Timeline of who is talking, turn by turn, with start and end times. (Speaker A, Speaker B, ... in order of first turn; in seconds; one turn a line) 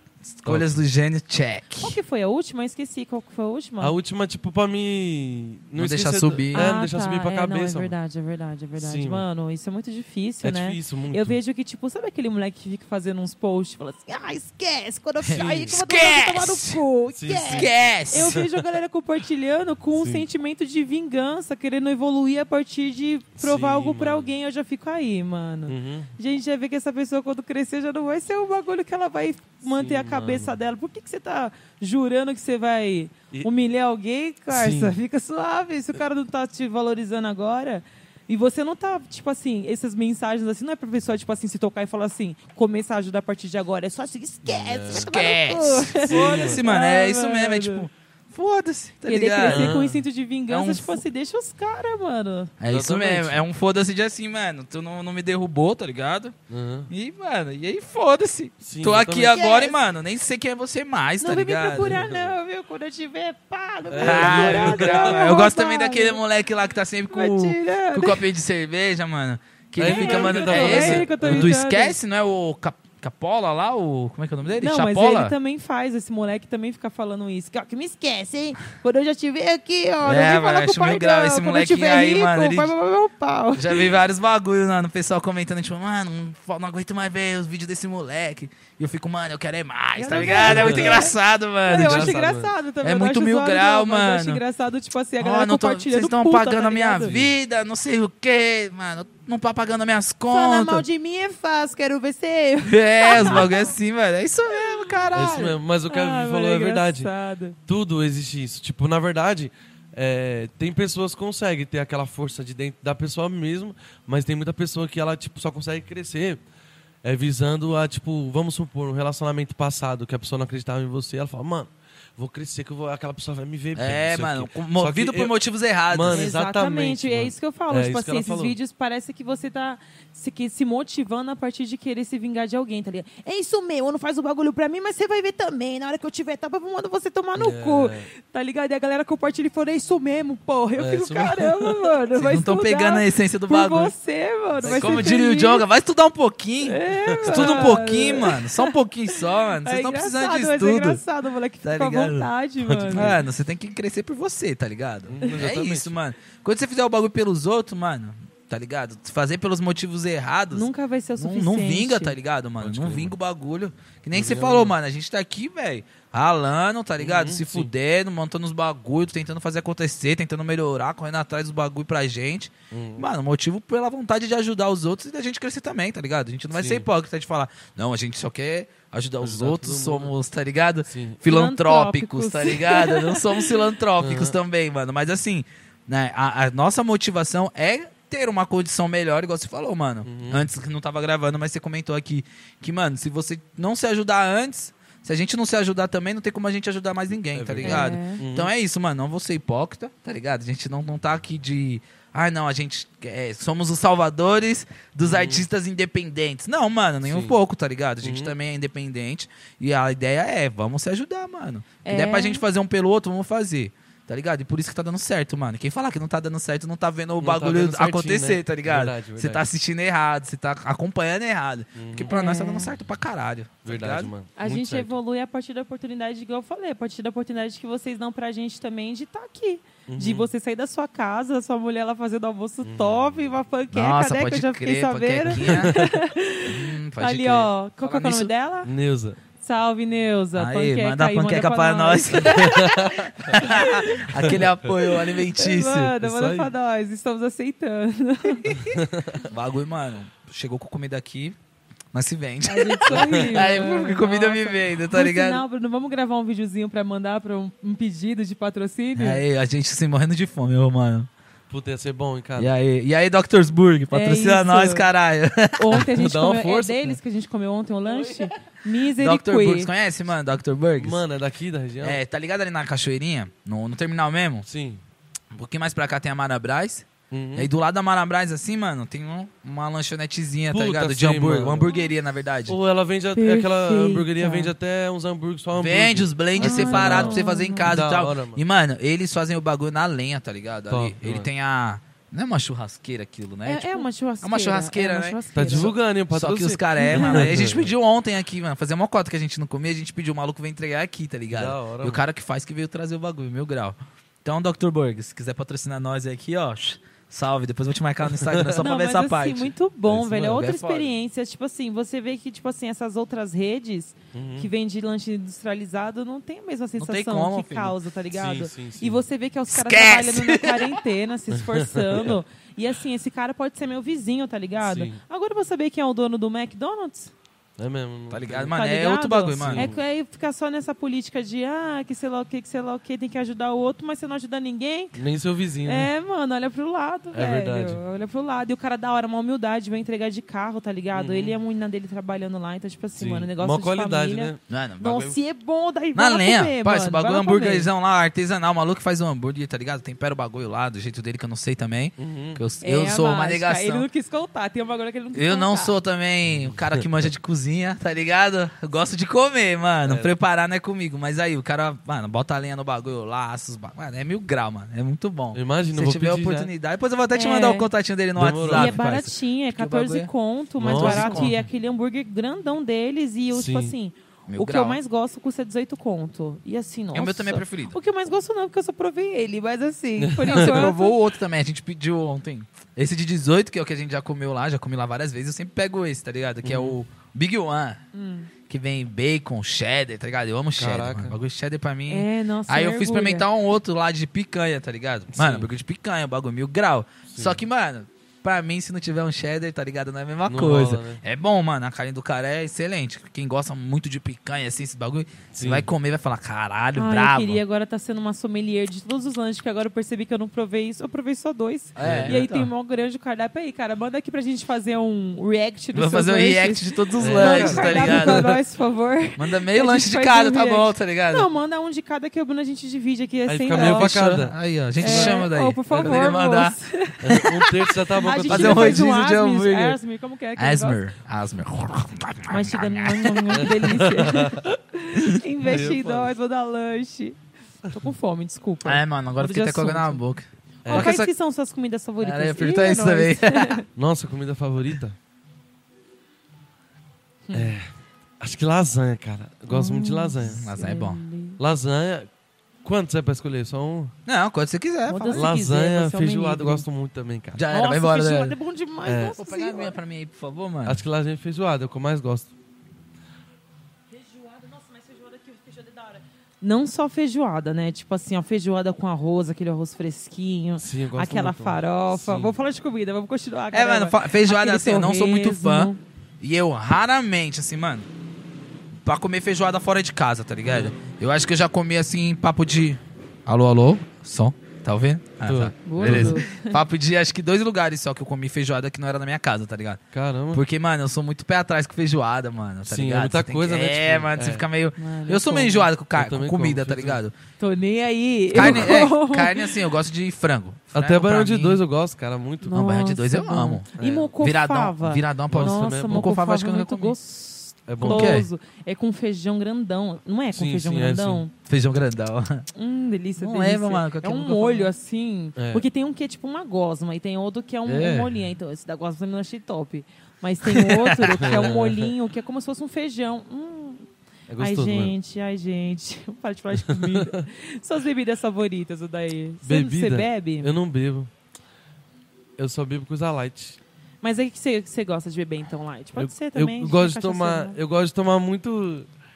Speaker A: 0.2-1.9
Speaker B: 0.5-0.8
Speaker C: 1.8-4.0
Speaker B: 3.8-7.9
Speaker A: 5.8-6.7
Speaker C: 6.5-47.9
Speaker B: 8.8-9.2
Speaker B: 10.4-11.4
Speaker A: 15.2-16.8
Speaker B: 15.3-15.8
Speaker B: 17.1-18.4
Speaker A: 17.5-18.4
Speaker B: 19.9-20.2
Speaker B: 23.4-24.3
Speaker B: 25.7-26.1
Speaker B: 29.8-30.5
Speaker B: 34.5-35.0
Speaker B: 44.4-45.1
Speaker A: 44.9-49.8
Speaker B: 46.1-46.6
Speaker C: 49.0-52.5
Speaker B: 49.5-50.0
Speaker A: 50.5-51.0
Speaker A: 52.6-56.3
Speaker B: 52.6-53.4
Speaker B: 56.5-56.9
Speaker A: 56.9-62.0
Speaker B: 58.6-59.3
Speaker C: 59.3-59.8
Speaker C: 61.2-66.2
Speaker B: 61.8-62.3
Speaker B: 63.9-65.2
Speaker A: 64.0-75.3
Speaker C: 67.1-68.2
Speaker B: 69.8-71.5
Speaker C: 69.8-72.0
Speaker C: 74.6-83.9
Speaker A: 80.0-82.7
Speaker A: 83.5-92.2
Speaker C: 90.0-91.1
Speaker B: 90.2-91.1
Speaker C: 91.7-97.1
Speaker B: 91.7-92.5
Speaker A: 92.8-94.4
Speaker A: 95.2-100.8
Speaker B: 97.1-97.3
Speaker C: 100.3-103.7
Speaker A: 102.6-105.6
Speaker C: 104.5-105.1
Speaker B: 105.1-107.1
Speaker C: 105.9-107.6
Speaker B: 107.7-116.4
Speaker B: 117.0-125.3
Speaker A: 123.7-126.2
Speaker B: 125.9-128.6
Speaker C: 126.1-145.7
Speaker B: 137.4-138.1
Speaker B: 140.8-141.9
Speaker A: 142.2-143.9
Speaker B: 144.6-145.1
Speaker A: 144.6-151.0
Speaker C: 146.6-153.1
Speaker B: 147.1-147.7
Speaker A: 151.6-152.3
Speaker B: 152.6-153.2
Speaker A: 152.9-224.1
Speaker B: 155.1-155.9
Speaker C: 160.5-162.2
Speaker B: 162.6-163.1
Speaker B: 164.1-164.7
Speaker B: 167.0-167.7
Speaker B: 172.7-173.1
Speaker B: 176.5-176.9
Speaker B: 179.2-180.1
Speaker B: 180.9-181.2
Speaker C: 181.2-183.5
Speaker B: 184.0-184.3
Speaker B: 190.0-190.5
Speaker B: 197.3-198.5
Speaker C: 197.6-198.2
Speaker B: 205.0-205.4
Speaker B: 207.0-207.3
Speaker B: 208.0-208.3
Speaker C: 211.8-212.4
Speaker B: 217.2-219.4
Speaker B: 221.8-222.1
Speaker C: 222.1-222.7
Speaker B: 223.6-224.9
Speaker C: 224.4-238.7
Speaker B: 229.9-230.3
Speaker B: 232.6-233.3
Speaker A: 233.7-235.9
Speaker B: 235.4-235.9
Speaker A: 236.4-238.3
Speaker B: 238.6-239.2
Speaker C: 239.4-244.1
Speaker A: 240.3-245.9
Speaker B: 242.4-243.4
Speaker B: 244.1-244.5
Speaker C: 245.3-248.7
Speaker B: 246.0-246.5
Speaker B: 248.7-249.2
Speaker A: 249.2-251.4
Speaker A: 251.9-255.4
Speaker C: 252.4-259.2
Speaker B: 252.9-253.4
Speaker A: 259.0-261.1
Speaker B: 261.5-262.5
Speaker A: 262.4-265.9
Speaker C: 263.9-264.9
Speaker C: 265.6-269.7
Speaker B: 265.7-267.0
Speaker A: 268.0-268.2
Speaker A: 269.0-271.0
Speaker B: 270.8-272.0
Speaker A: 271.8-274.4
Speaker B: 274.4-274.8
Speaker A: 275.3-282.6
Speaker B: 277.1-277.5
Speaker B: 280.5-281.7
Speaker B: 282.5-288.4
Speaker C: 283.1-284.5
Speaker A: 285.6-310.9
Speaker C: 286.4-287.8
Speaker B: 290.7-291.3
Speaker C: 293.4-295.7
Speaker B: 295.3-297.7
Speaker C: 296.8-297.3
Speaker B: 301.3-302.0
Speaker B: 308.2-308.6
Speaker C: 308.6-327.1
Speaker B: 314.1-314.5
Speaker A: 316.8-317.8
Speaker B: 318.1-319.0
Speaker A: 319.5-320.8
Speaker B: 321.3-322.1
Speaker B: 324.6-325.0
Speaker B: 327.6-328.5
Speaker A: 328.1-329.7
Speaker C: 328.5-335.0
Speaker B: 329.4-329.8
Speaker B: 334.9-335.9
Speaker C: 335.6-347.7
Speaker B: 337.1-337.8
Speaker B: 340.9-341.4
Speaker B: 343.0-344.4
Speaker A: 344.5-345.2
Speaker A: 345.9-353.9
Speaker B: 352.0-352.4
Speaker C: 352.6-355.7
Speaker A: 355.1-370.1
Speaker B: 356.3-356.8
Speaker B: 359.8-360.1
Speaker B: 365.3-366.5
Speaker C: 367.1-367.7
Speaker B: 368.1-368.8
Speaker C: 368.4-381.0
Speaker B: 370.6-371.4
Speaker A: 370.6-371.4
Speaker B: 373.3-373.7
Speaker A: 374.3-374.8
Speaker A: 376.9-377.7
Speaker B: 380.0-380.7
Speaker A: 380.2-387.8
Speaker B: 386.4-386.8
Speaker C: 387.9-388.3
Speaker A: 388.5-407.4
Speaker B: 390.6-391.1
Speaker C: 391.9-393.3
Speaker B: 395.1-395.5
Speaker B: 397.1-397.4
Speaker B: 400.2-401.0
Speaker B: 405.3-405.7
Speaker C: 406.8-424.0
Speaker A: 411.8-412.5
Speaker B: 411.8-412.2
Speaker A: 415.7-418.4
Speaker B: 417.0-418.3
Speaker A: 419.2-421.3
Speaker B: 423.3-426.1
Speaker A: 423.5-426.6
Speaker C: 424.8-430.8
Speaker B: 427.0-428.9
Speaker A: 428.2-429.8
Speaker A: 430.4-433.6
Speaker C: 432.3-437.2
Speaker B: 433.3-434.4
Speaker A: 434.9-435.2
Speaker B: 435.4-436.1
Speaker C: 437.7-440.0
Speaker A: 438.6-441.1
Speaker B: 440.6-440.9
Speaker C: 440.7-443.6
Speaker A: 442.0-443.6
Speaker B: 443.8-444.9
Speaker C: 447.3-447.5
Speaker B: 447.3-447.7
Speaker B: 448.2-450.4
Speaker C: 449.5-451.4
Speaker A: 450.2-451.0
Speaker B: 451.4-452.1
Speaker B: 452.6-453.9
Speaker A: 454.1-455.3
Speaker C: 454.9-456.6
Speaker B: 455.1-457.4
Speaker A: 457.3-458.4
Speaker C: 457.5-459.8
Speaker B: 458.8-459.2
Speaker A: 459.2-460.8
Speaker B: 460.6-462.3
Speaker C: 463.9-475.8
Speaker B: 470.6-472.3
Speaker A: 473.5-477.9
Speaker A: 478.8-489.8
Speaker B: 480.5-480.7
Speaker B: 485.2-486.2
Speaker C: 485.6-486.6
Speaker B: 489.9-490.4
Speaker A: 490.3-497.1
Speaker B: 492.6-494.5
Speaker C: 494.8-495.7
Speaker B: 495.9-497.0
Speaker C: 497.4-499.6
Speaker A: 498.3-501.6
Speaker B: 498.3-498.8
Speaker B: 500.7-502.6
Speaker C: 502.4-511.3
Speaker A: 502.5-506.9
Speaker B: 503.8-504.1
Speaker B: 505.3-506.1
Speaker B: 507.7-508.2
Speaker A: 507.8-508.3
Speaker B: 510.3-511.2
Speaker A: 511.4-512.5
Speaker C: 512.5-530.5
Speaker A: 513.2-514.7
Speaker B: 515.4-515.6
Speaker A: 517.6-518.1
Speaker A: 520.5-521.5
Speaker B: 521.2-521.9
Speaker B: 524.3-524.9
Speaker B: 526.6-527.2
Speaker B: 529.4-531.1
Speaker B: 532.4-533.6
Speaker C: 534.0-537.6
Speaker B: 536.0-538.9